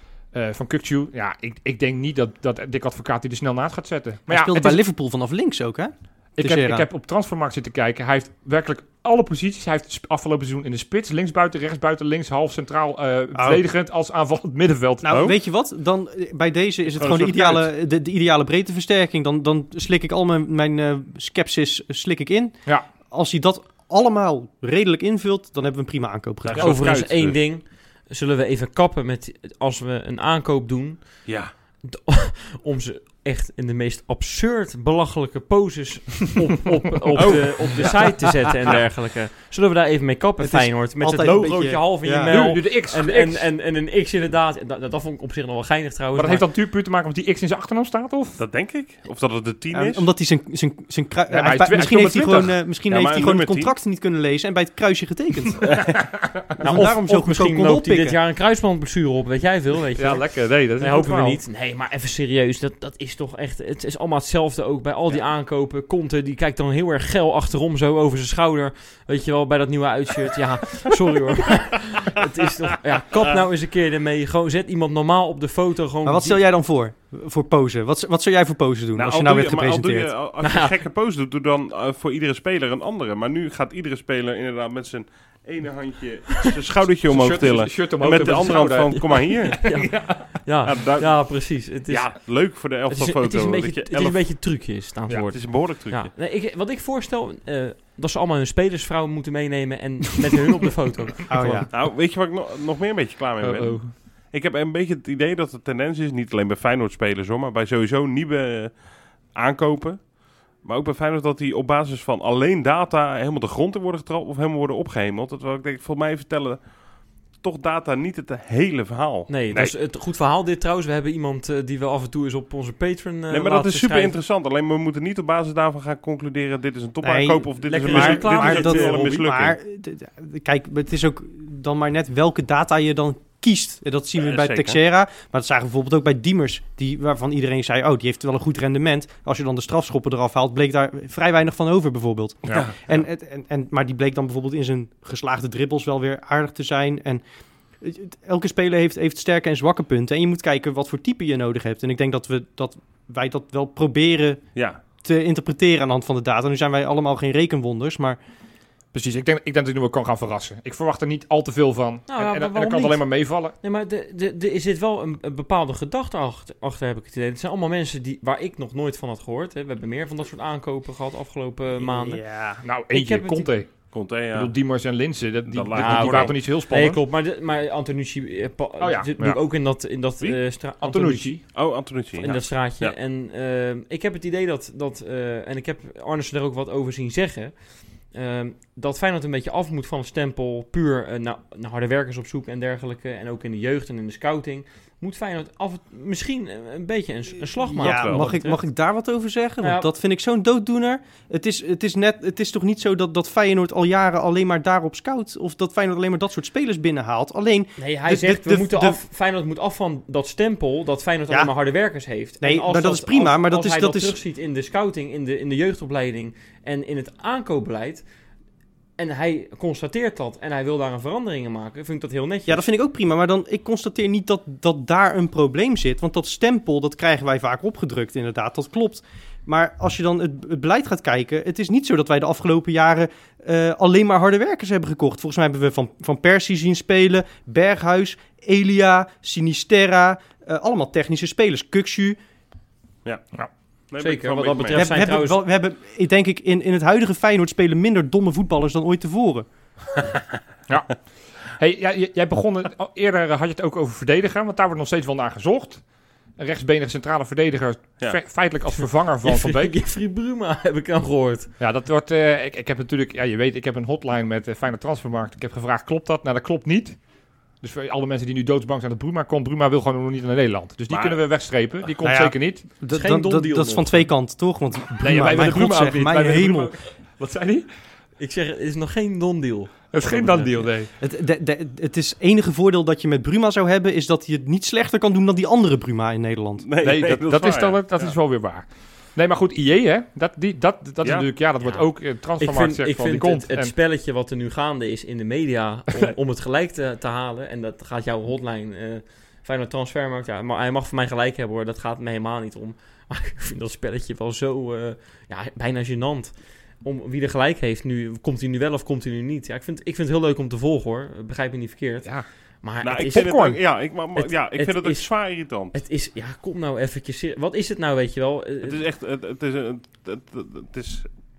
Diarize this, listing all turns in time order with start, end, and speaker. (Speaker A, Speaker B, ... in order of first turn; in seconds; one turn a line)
Speaker A: 0.3-4.8
Speaker B: 4.3-6.9
Speaker A: 6.4-15.3
Speaker B: 13.3-13.6
Speaker B: 15.0-26.8
Speaker C: 16.9-17.7
Speaker C: 26.4-27.4
Speaker D: 26.6-31.3
Speaker C: 31.2-31.5
Speaker D: 31.8-46.4
Speaker C: 37.2-38.9
Speaker B: 40.4-42.6
Speaker A: 42.2-43.5
Speaker A: 46.1-48.4
Speaker C: 48.4-50.1
Speaker B: 49.7-55.9
Speaker A: 51.3-52.5
Speaker C: 52.9-53.7
Speaker D: 56.5-76.4
Speaker B: 56.6-58.2
Speaker A: 60.0-61.4
Speaker B: 76.0-80.1
Speaker C: 79.0-89.7
Speaker D: 80.4-80.7
Speaker A: 87.1-90.3
Speaker D: 89.5-92.2
Speaker C: 90.6-91.3
Speaker C: 91.9-94.2
Speaker D: 92.9-101.7
Speaker C: 95.3-96.1
Speaker B: 101.3-101.7
Speaker C: 101.7-119.3
Speaker A: 103.4-103.9
Speaker D: 119.3-124.2
Speaker C: 123.3-129.6
Speaker B: 127.0-147.2
Speaker D: 127.7-129.2
Speaker C: 134.2-134.8
Speaker B: 147.8-154.4
Speaker B: 155.0-158.2
Speaker A: 158.9-163.5
Speaker D: 162.1-163.1
Speaker D: 163.6-172.2
Speaker B: 171.8-172.6
Speaker A: 172.6-173.8
Speaker D: 172.9-173.5
Speaker C: 173.9-174.5
Speaker A: 174.3-177.0
Speaker C: 175.4-176.3
Speaker D: 175.7-181.5
Speaker A: 178.8-179.4
Speaker A: 180.2-181.4
Speaker C: 181.5-182.9
Speaker D: 182.2-187.5
Speaker D: 188.1-198.6
Speaker B: 197.6-209.0
Speaker C: 197.8-198.3
Speaker D: 199.6-199.9
Speaker D: 207.8-218.0
Speaker B: 212.4-214.2
Speaker D: 219.0-222.7
Speaker B: 222.5-242.2
Speaker C: 243.9-244.9
Speaker D: 244.0-245.4
Speaker B: 244.7-249.5
Speaker A: 250.7-255.8
Speaker A: 256.4-259.7
Speaker D: 259.2-261.5
Speaker A: 261.6-267.0
Speaker A: 267.6-272.6
Speaker C: 270.9-271.2
Speaker B: 272.0-276.7
Speaker D: 272.9-274.1
Speaker A: 275.0-277.7
Speaker D: 278.2-280.7
Speaker A: 279.9-280.9
Speaker B: 281.0-286.7
Speaker C: 286.6-288.1
Speaker A: 286.8-293.7
Speaker C: 291.0-291.3
Speaker D: 292.4-312.1
Speaker D: 312.6-313.4
Speaker C: 312.8-315.8
Speaker A: 313.0-313.6
Speaker D: 314.1-315.1
Speaker D: 315.7-318.8
Speaker C: 318.6-321.1